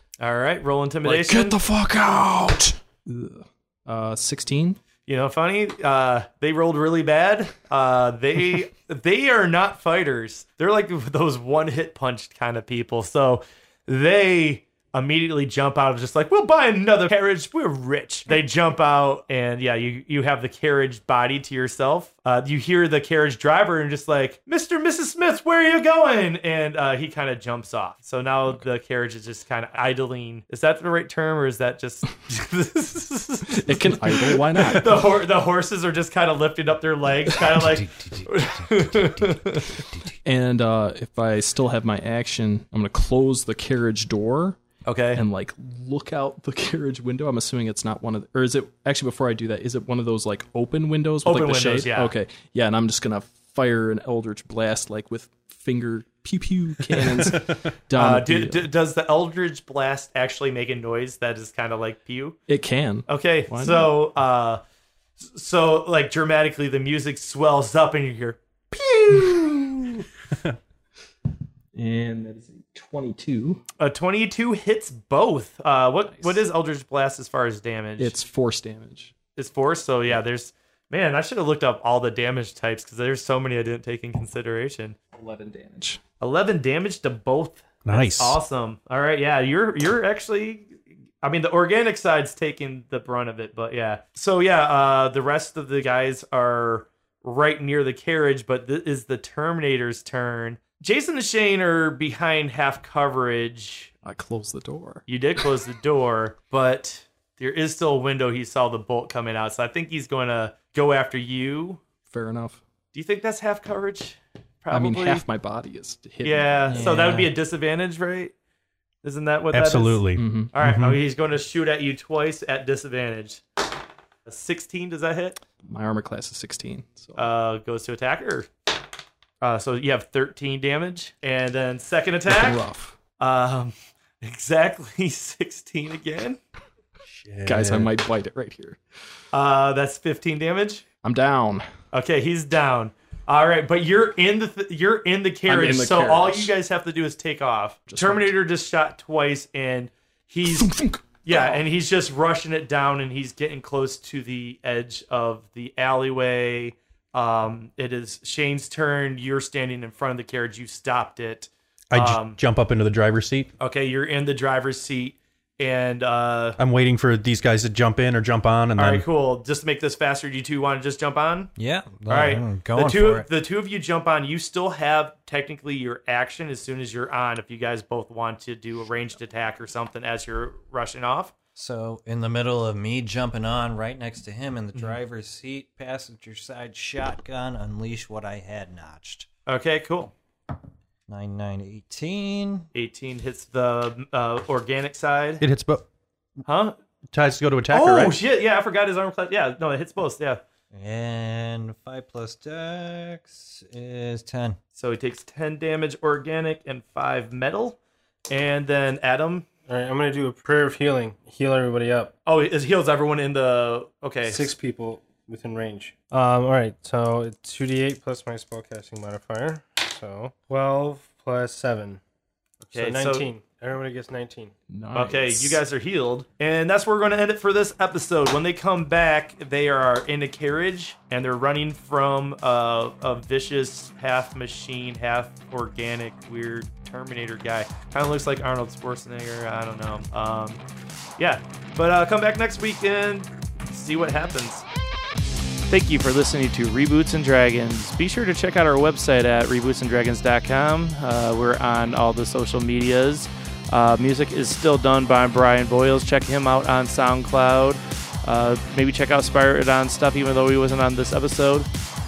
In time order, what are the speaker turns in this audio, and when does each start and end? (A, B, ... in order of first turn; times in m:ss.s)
0:00.2-0:01.6 A
0:01.0-0:04.8 B
0:05.1-0:39.8 A
0:33.5-0:35.2 B
0:37.5-0:40.1 C
0:40.2-0:44.6 B
0:44.8-0:45.2 A
0:45.2-0:58.7 B
0:51.2-0:52.1 A
0:57.9-1:02.4 A
1:02.5-1:03.9 B
1:03.1-1:04.6 A
1:05.2-1:09.2 A
1:08.8-1:09.9 B
1:11.8-1:13.6 B
1:13.8-1:18.2 A
1:16.1-1:16.4 B
1:18.0-1:19.1 B
1:19.4-1:25.0 A
1:25.1-1:26.0 B
1:26.2-1:43.9 A
1:27.8-1:28.4 D
1:44.0-1:45.0 B
1:45.1-1:51.8 A
1:52.1-1:52.6 B
1:52.9-1:55.2 A
1:54.7-1:57.2 B
1:56.2-1:58.3 A
1:56.7-1:57.3 C
1:59.0-2:03.4 A
1:59.5-2:01.0 D
2:00.2-2:00.5 B
2:04.3-2:05.4 A
2:05.6-2:07.2 B
2:07.2-2:08.5 A
2:09.4-2:12.6 A
2:12.3-2:13.0 B
2:13.2-2:16.4 A
2:17.3-2:17.8 D
2:17.4-2:18.8 B
2:19.3-2:20.8 A
2:21.0-2:21.6 B
2:21.9-2:30.7 A
2:25.5-2:26.5 B
2:27.9-2:28.3 B
2:30.5-2:31.6 B
2:31.2-2:42.4 A
2:41.9-2:43.5 D
2:43.6-2:46.6 A
2:46.6-2:49.0 D
2:48.8-2:51.5 A
2:51.6-2:53.3 C
2:52.1-3:01.4 A
3:01.6-3:09.3 C
3:09.5-3:10.1 A
3:11.1-3:12.7 C
3:12.7-3:15.4 A
3:15.4-3:15.8 D
3:16.5-3:16.8 A
3:17.1-3:18.2 D
3:17.7-3:20.4 A
3:20.7-3:24.6 C
3:24.8-3:27.8 A
3:28.3-3:29.5 A
3:29.7-3:32.1 E
3:32.3-3:34.5 A
3:34.2-3:42.0 E
3:42.6-3:44.5 E
3:42.7-3:43.3 A
3:44.7-3:45.6 B
3:44.9-4:00.6 A
4:01.2-4:04.6 A
4:05.7-4:21.7 A